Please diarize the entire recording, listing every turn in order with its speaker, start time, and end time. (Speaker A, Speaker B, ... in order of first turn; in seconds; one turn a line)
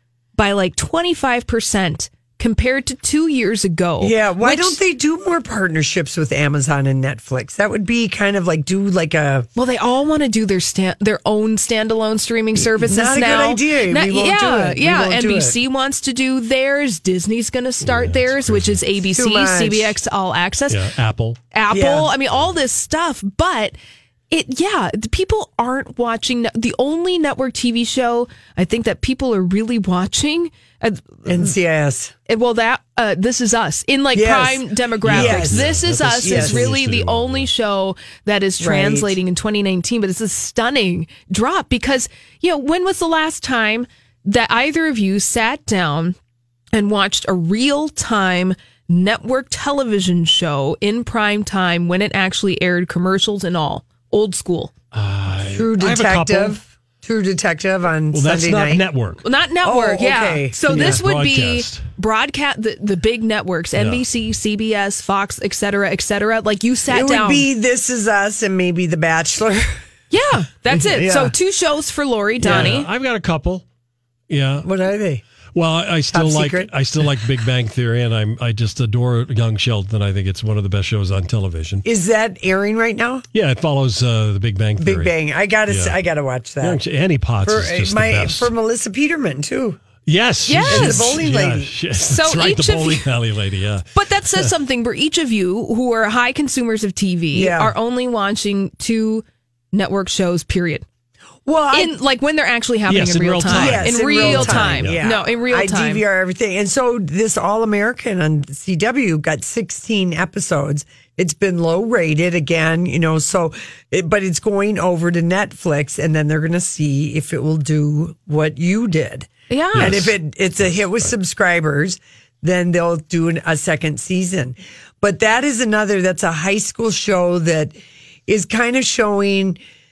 Speaker A: 0.3-4.8
Speaker B: 4.0-9.5
Speaker A: 9.6-20.8
Speaker B: 12.6-15.6
Speaker C: 17.8-18.8
Speaker B: 19.0-20.0
Speaker C: 20.7-21.4
Speaker A: 21.5-23.8
Speaker B: 21.7-22.1
Speaker A: 24.3-31.5
Speaker B: 31.2-32.1
Speaker A: 32.3-46.2
Speaker B: 34.1-36.7
Speaker C: 35.0-37.5
Speaker B: 38.6-39.2
Speaker A: 46.7-54.7
Speaker C: 54.9-56.6
Speaker B: 55.4-58.8
Speaker C: 58.1-59.2
Speaker A: 59.2-67.5
Speaker B: 59.6-61.0
Speaker C: 60.7-61.8
Speaker C: 63.8-64.0
Speaker B: 66.9-69.8
Speaker A: 70.1-72.9
Speaker B: 70.7-71.3
Speaker B: 72.4-72.8
Speaker C: 72.4-73.6
Speaker C: 74.3-74.7
Speaker B: 74.6-75.2
Speaker C: 75.5-81.8
Speaker B: 76.1-76.7
Speaker B: 81.8-83.2
Speaker C: 83.3-85.1
Speaker B: 84.8-86.8
Speaker C: 85.7-86.0
Speaker C: 86.6-88.5
Speaker B: 87.4-89.8
Speaker C: 90.0-94.5
Speaker A: 90.5-91.2
Speaker B: 90.6-91.7
Speaker A: 92.0-93.1
Speaker A: 93.9-100.8
Speaker B: 97.3-97.7
Speaker B: 101.4-101.9
Speaker A: 101.7-106.0
Speaker C: 102.9-105.0
Speaker B: 103.5-127.7
Speaker A: 119.5-120.0
Speaker C: 119.7-121.1
Speaker B: 128.3-129.6